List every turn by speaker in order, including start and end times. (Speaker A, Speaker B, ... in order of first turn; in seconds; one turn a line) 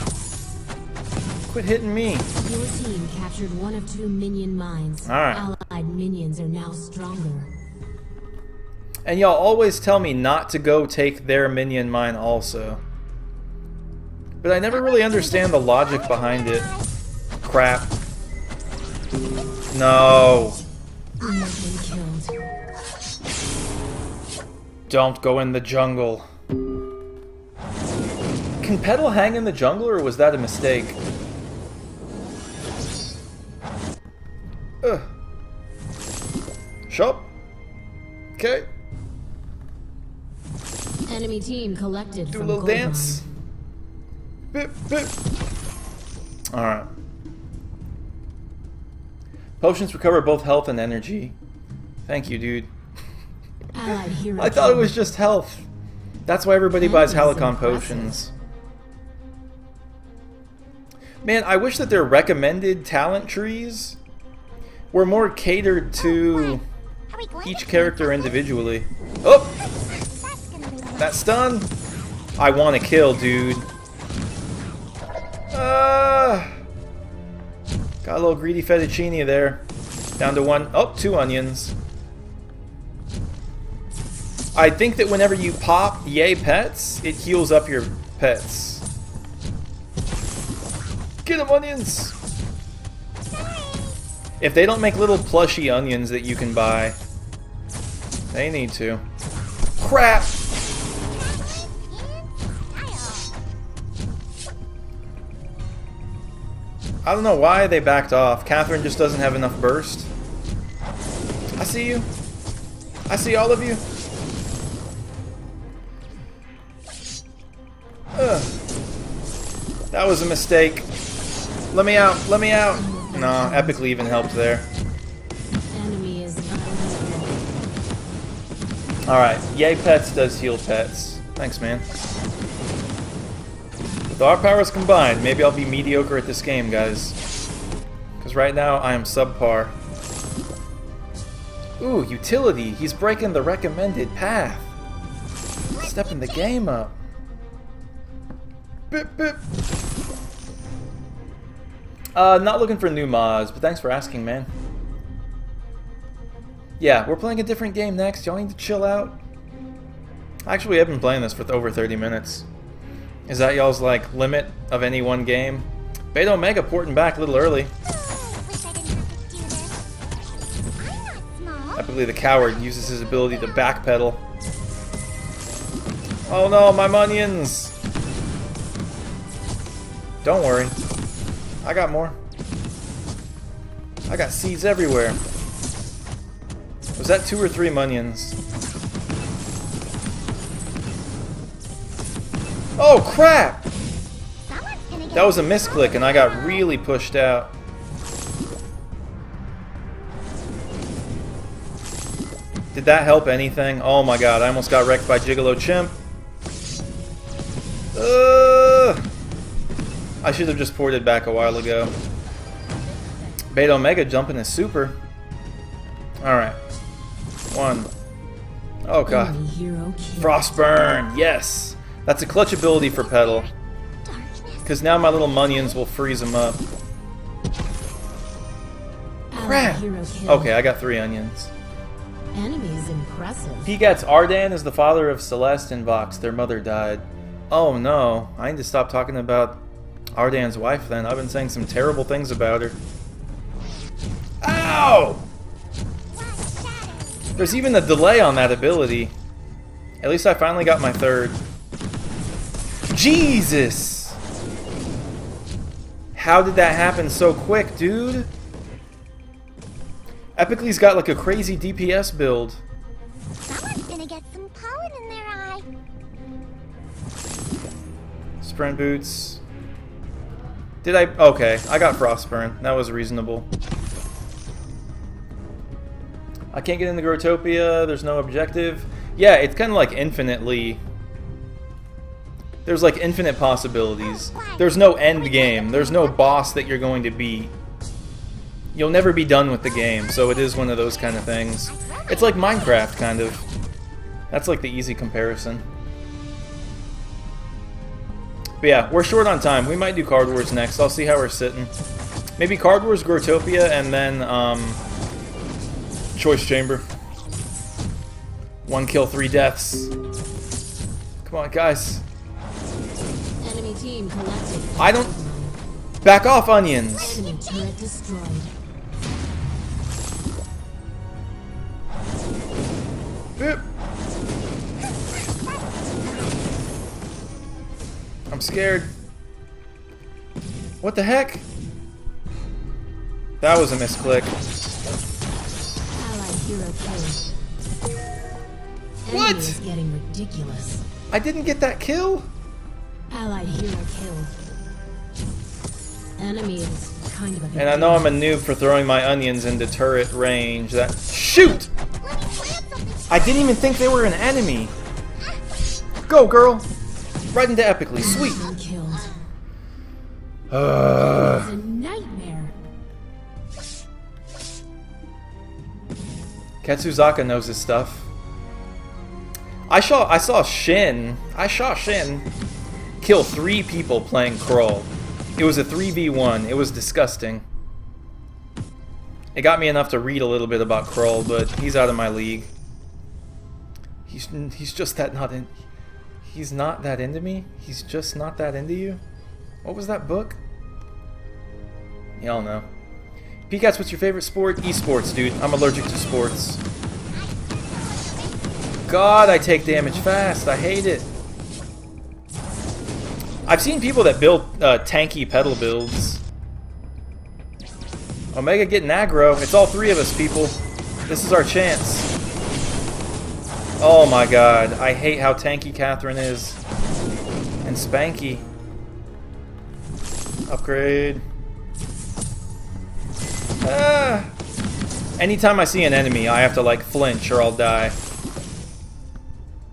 Speaker A: 1.5-2.3
Speaker B: 2.4-7.5
Speaker A: 5.0-5.5
Speaker A: 9.1-12.8
Speaker A: 14.4-16.7
Speaker C: 14.7-16.9
Speaker A: 17.4-17.9
Speaker A: 19.7-20.6
Speaker B: 21.2-22.4
Speaker A: 24.9-26.3
Speaker A: 28.6-31.0
Speaker A: 34.8-35.1
Speaker A: 36.9-37.3
Speaker A: 38.4-38.7
Speaker B: 41.1-43.2
Speaker A: 42.3-43.2
Speaker A: 44.5-45.1
Speaker A: 46.5-46.9
Speaker A: 49.6-51.3
Speaker A: 52.1-52.7
Speaker B: 53.7-54.9
Speaker A: 54.4-55.7
Speaker A: 56.3-58.3
Speaker B: 56.8-58.2
Speaker A: 61.2-64.0
Speaker A: 64.9-66.6
Speaker C: 66.0-68.5
Speaker A: 67.5-69.6
Speaker C: 69.7-71.3
Speaker A: 71.0-71.7
Speaker A: 72.4-73.7
Speaker A: 75.5-76.5
Speaker A: 78.0-79.6
Speaker A: 80.2-81.7
Speaker A: 84.5-88.8
Speaker A: 91.2-92.1
Speaker A: 94.4-97.0
Speaker A: 98.3-99.0
Speaker A: 99.8-100.4
Speaker C: 101.1-103.3
Speaker A: 107.0-110.1
Speaker A: 111.6-112.1
Speaker A: 113.1-113.8
Speaker A: 118.2-118.5
Speaker A: 119.9-120.9
Speaker A: 121.7-124.7
Speaker B: 122.7-123.9
Speaker B: 125.7-127.4
Speaker A: 129.1-131.8
Speaker A: 134.1-137.2
Speaker A: 138.2-139.7
Speaker A: 141.8-144.7
Speaker C: 145.7-146.4
Speaker A: 145.8-146.9
Speaker A: 148.9-149.4
Speaker A: 152.2-154.5
Speaker A: 156.8-159.2
Speaker A: 160.5-162.5
Speaker A: 163.3-167.7
Speaker C: 167.8-169.8
Speaker C: 170.8-171.9
Speaker A: 171.8-174.2
Speaker A: 176.3-177.7
Speaker A: 180.2-180.8
Speaker A: 181.6-182.2
Speaker A: 184.1-185.2
Speaker A: 187.0-188.4
Speaker A: 192.8-193.7
Speaker C: 194.5-196.7
Speaker A: 195.1-197.5
Speaker A: 202.7-206.0
Speaker A: 207.9-209.0
Speaker A: 210.2-211.9
Speaker A: 213.5-215.0
Speaker A: 216.2-216.6
Speaker A: 217.5-217.9
Speaker A: 218.9-219.4
Speaker B: 219.1-220.4
Speaker A: 220.2-223.5
Speaker C: 222.8-223.5
Speaker C: 224.1-225.8
Speaker A: 224.7-226.6
Speaker B: 229.3-230.5
Speaker A: 229.4-231.5
Speaker B: 232.3-233.7
Speaker A: 233.7-239.6
Speaker A: 240.2-242.8
Speaker A: 244.4-245.2
Speaker C: 246.1-248.0
Speaker A: 247.4-249.1
Speaker A: 250.0-251.4
Speaker A: 252.9-254.2
Speaker A: 256.1-258.3
Speaker A: 260.4-262.6
Speaker C: 263.5-265.7
Speaker A: 268.4-269.4
Speaker A: 270.8-273.5
Speaker A: 276.5-280.8
Speaker A: 282.7-287.5
Speaker C: 284.1-286.7
Speaker A: 288.8-293.4
Speaker C: 290.1-293.4
Speaker A: 294.3-295.6
Speaker A: 298.6-301.7
Speaker A: 302.4-304.8
Speaker A: 306.1-306.8
Speaker A: 308.7-309.9
Speaker A: 311.2-312.0
Speaker B: 313.4-315.6
Speaker A: 314.8-315.1
Speaker A: 316.0-317.2
Speaker B: 317.0-318.5
Speaker A: 323.4-323.6
Speaker A: 328.3-328.9
Speaker A: 330.8-331.4
Speaker A: 333.4-334.4
Speaker B: 336.0-337.3
Speaker B: 339.0-340.8
Speaker A: 339.1-339.6
Speaker A: 341.1-342.3
Speaker B: 343.1-344.4
Speaker B: 346.2-348.1
Speaker A: 347.6-351.7
Speaker C: 352.0-353.9
Speaker A: 353.1-354.7
Speaker A: 356.1-356.7
Speaker A: 357.3-358.4
Speaker B: 358.0-359.1
Speaker A: 360.5-361.5
Speaker B: 361.2-362.5
Speaker A: 366.6-368.1
Speaker A: 369.7-372.3
Speaker A: 373.0-377.4
Speaker A: 379.4-382.5
Speaker A: 384.1-385.5
Speaker A: 386.2-389.0
Speaker A: 389.6-390.4
Speaker A: 392.2-392.7
Speaker A: 393.5-396.6
Speaker C: 397.1-399.0
Speaker A: 398.9-401.1
Speaker B: 399.2-400.5
Speaker A: 403.5-406.2
Speaker A: 408.3-412.1
Speaker A: 413.8-416.6
Speaker A: 417.6-418.4
Speaker A: 420.5-421.2
Speaker A: 423.6-424.3
Speaker A: 425.2-428.0